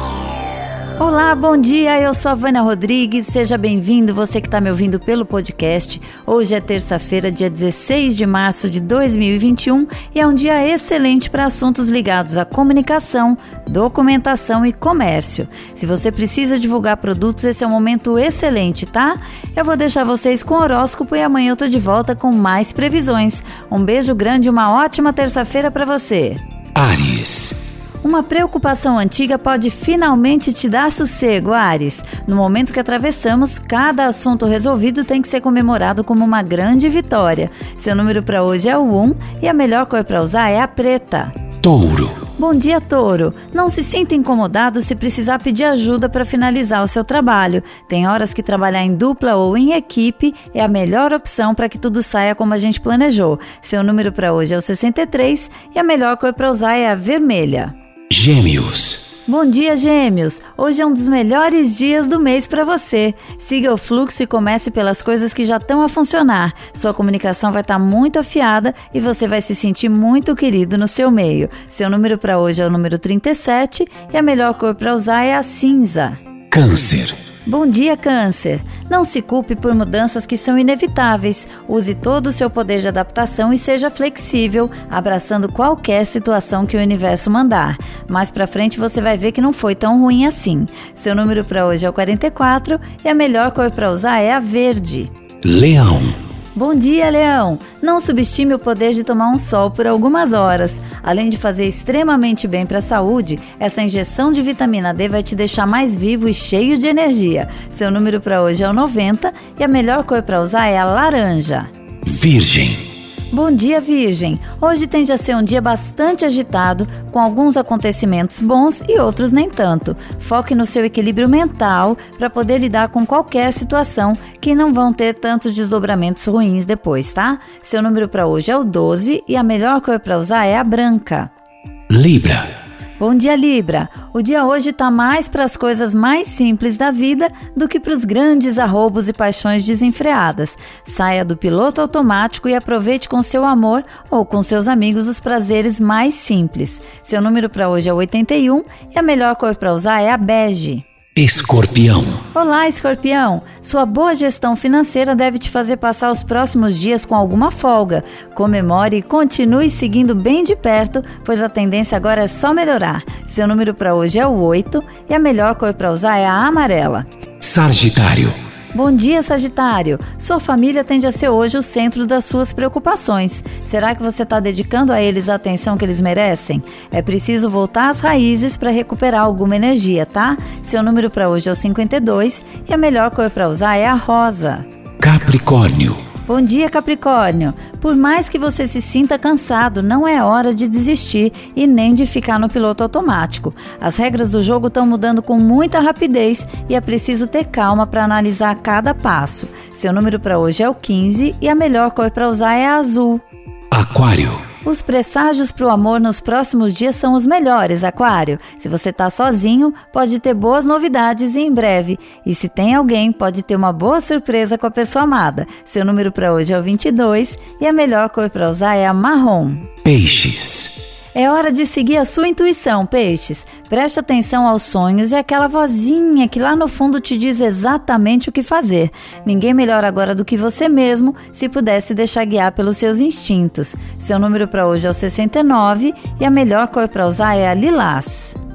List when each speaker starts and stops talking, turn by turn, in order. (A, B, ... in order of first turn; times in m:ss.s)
0:01.0-0:26.4 A
0:26.8-0:27.6 B
0:28.0-0:41.4 A
0:41.6-0:42.2 B
0:42.4-0:57.7 A
0:58.1-0:59.1 B
0:59.3-1:16.2 A
1:16.5-1:17.2 B
1:17.5-1:35.1 A
1:35.4-1:36.2 B
1:36.6-1:51.7 A
1:52.1-1:52.9 B
1:53.3-2:11.3 A
2:11.9-2:12.5 B
2:13.0-2:30.8 A
2:31.2-2:32.2 B
2:32.3-2:47.1 A
2:47.4-2:48.4 B
2:48.7-3:04.6 A
3:05.0-3:06.0 B
3:06.3-3:23.2 A
3:23.7-3:24.4 B
3:24.6-3:39.7 A
3:39.8-3:40.9 B
3:41.1-3:58.4 A